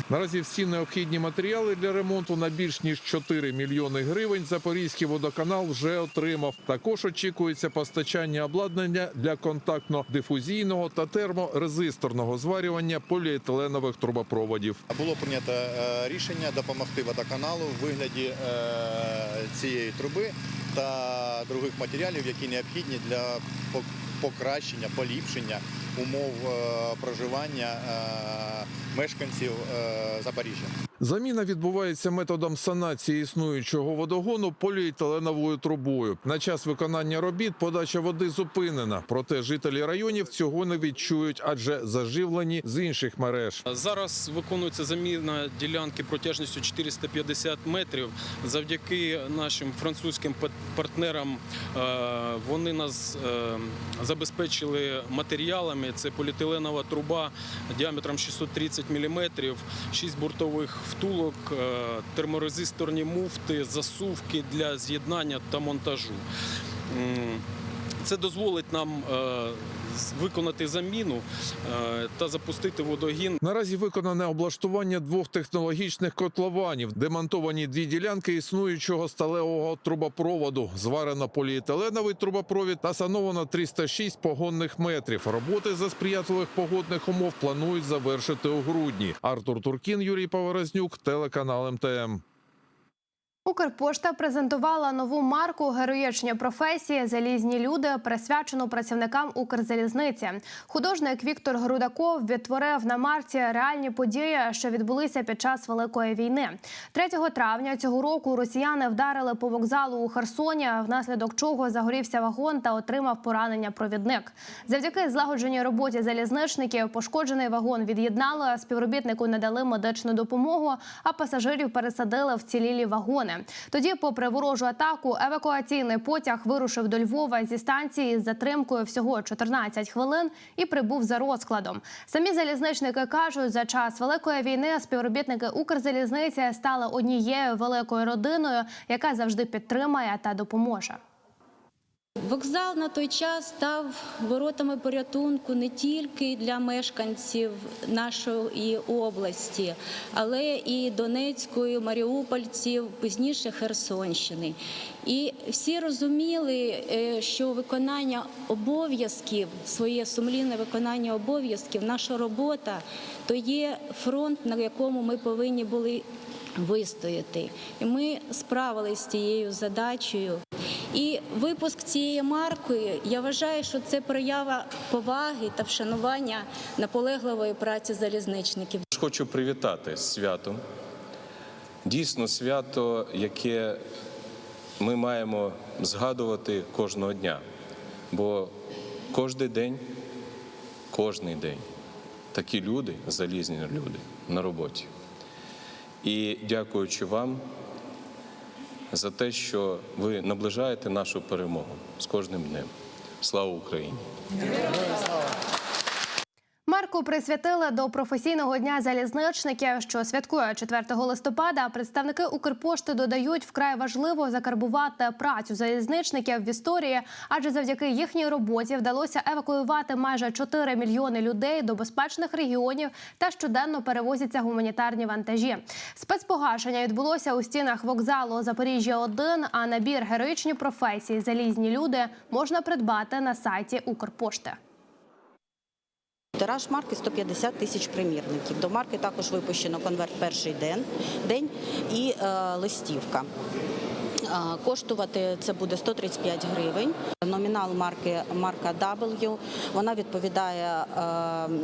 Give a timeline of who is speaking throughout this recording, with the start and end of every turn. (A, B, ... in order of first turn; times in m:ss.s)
0:00.1-0:14.8 A
0:14.9-0:30.7 B
0:31.0-0:43.6 A
0:43.6-1:06.2 C
1:06.9-1:07.4 C
1:08.0-1:13.4 C
1:13.4-1:32.2 A
1:33.5-2:21.0 D
2:22.2-2:50.4 E
2:50.9-2:58.8 E
2:58.9-3:00.6 F
3:01.8-3:03.8 F
3:04.8-3:07.4 F
3:08.1-3:08.6 F
3:09.1-3:09.9 F
3:10.9-3:11.7 F
3:12.3-3:14.9 F
3:16.0-3:17.4 F
3:18.9-3:22.7 F
3:23.2-3:24.0 F
3:26.7-3:54.6 D
3:56.4-4:03.3 G
4:04.7-4:11.5 G